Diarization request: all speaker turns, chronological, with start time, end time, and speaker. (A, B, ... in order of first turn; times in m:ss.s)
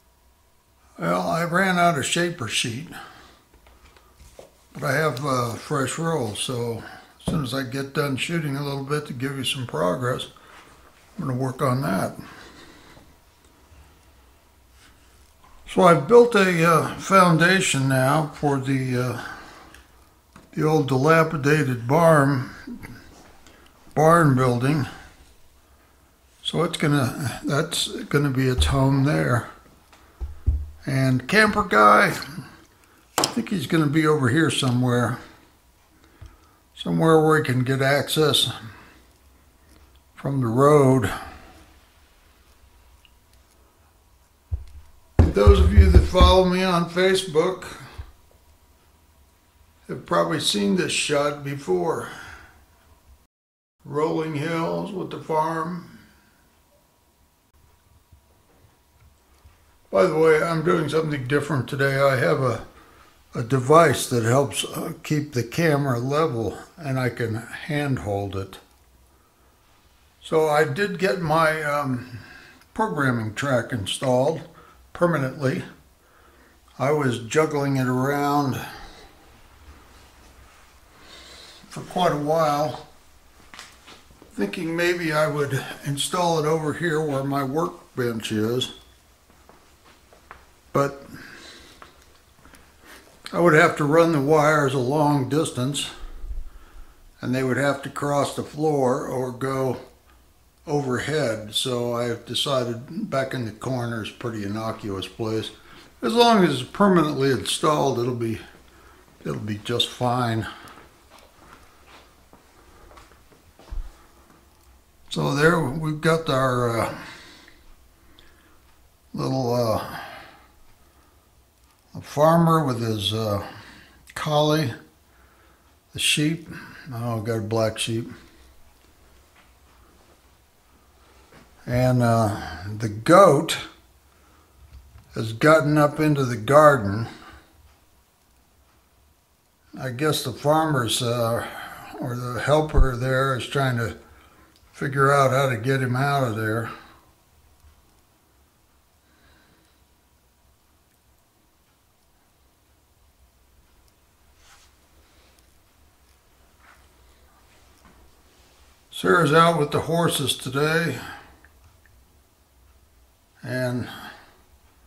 0:01.0-0:02.9 A
0:04.7-0:10.3 A
0:11.2-0:12.2 A
0:15.7-0:19.4 A
0:20.5-0:22.8 A
0:24.0-0:24.9 A
0:26.4-0:29.5 A
0:30.9-0:32.2 A
0:33.2-0:35.2 A
0:36.8-0:38.5 A
0:40.2-0:41.1 A
0:45.2-0:47.8 A
0:49.9-0:52.1 A
0:53.8-0:56.0 A
0:59.9-1:02.6 A
1:03.3-1:08.6 A
1:10.2-1:15.6 A
1:16.8-1:18.6 A
1:21.7-1:22.8 A
1:24.3-1:28.7 A
1:30.7-1:31.1 A
1:33.3-1:35.9 A
1:37.2-1:39.8 A
1:40.7-1:48.4 A
1:49.2-1:50.5 A
1:55.1-1:57.0 A
1:59.1-2:00.3 A
2:01.9-2:03.5 A
2:04.1-2:04.8 A
2:05.9-2:08.1 A
2:11.7-2:13.6 A
2:15.1-2:17.1 A
2:19.8-2:24.0 A
2:24.7-2:26.7 A
2:38.9-2:41.0 A
2:43.4-2:43.9 A